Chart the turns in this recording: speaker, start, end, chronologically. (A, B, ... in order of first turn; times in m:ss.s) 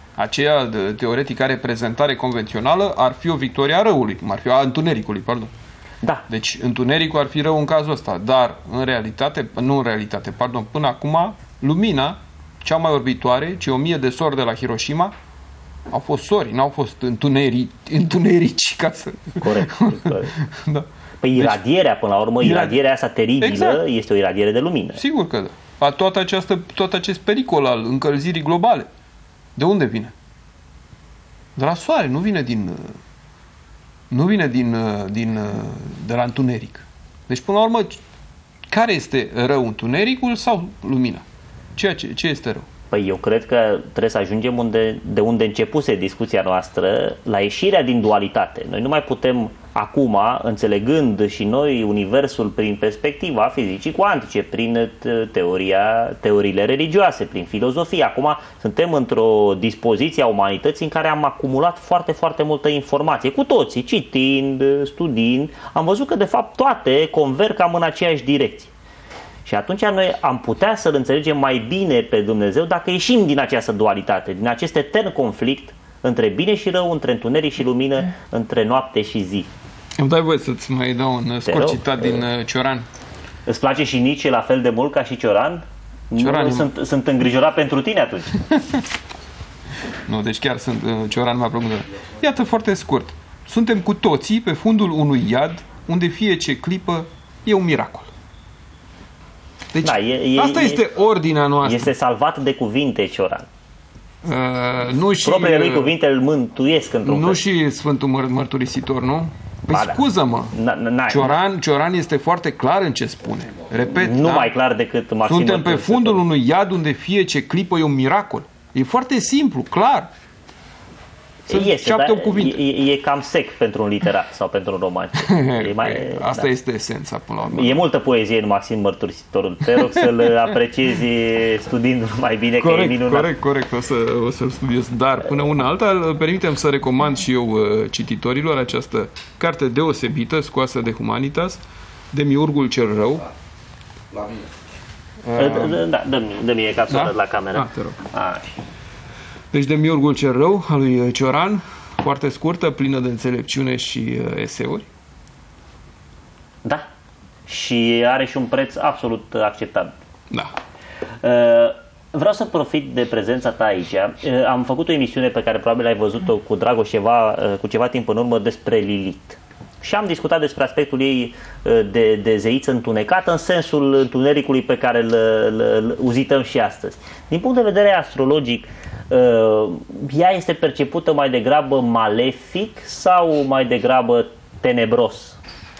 0:00.2-0:05.5 A
0:06.3-0:15.1 A
0:15.9-0:21.6 A
0:19.4-0:20.3 B
0:21.2-0:25.0 B
0:22.4-0:22.8 A
0:23.4-0:23.8 A
0:25.0-0:28.9 A
0:29.6-0:30.1 A
0:31.6-0:33.0 A
0:34.1-0:38.0 A
0:38.7-0:41.2 A
0:41.8-0:42.7 A
0:42.9-1:08.7 B
1:09.4-1:19.5 B
1:20.0-1:22.9 A
1:21.4-1:22.2 B
1:23.5-1:28.4 B
1:26.2-1:26.7 A
1:28.5-1:28.8 A
1:30.1-1:38.1 A
1:39.7-1:41.9 A
1:39.8-1:40.8 B
1:41.6-1:43.5 B
1:44.2-1:45.9 A
1:45.2-1:47.4 B
1:47.0-1:50.5 A
1:49.7-1:50.0 B
1:50.5-1:51.4 B
1:51.1-1:54.5 A
1:53.9-1:56.2 B
1:55.2-2:00.1 A
2:01.5-2:06.5 B
2:01.5-2:02.6 A
2:05.2-2:07.8 A
2:07.5-2:13.3 B
2:09.9-2:10.3 A
2:12.6-2:21.6 A
2:22.1-2:23.2 A
2:25.3-2:25.8 A
2:25.3-2:28.4 B
2:26.9-2:28.0 A
2:29.5-2:34.8 A
2:37.5-2:39.9 B
2:41.2-3:05.4 B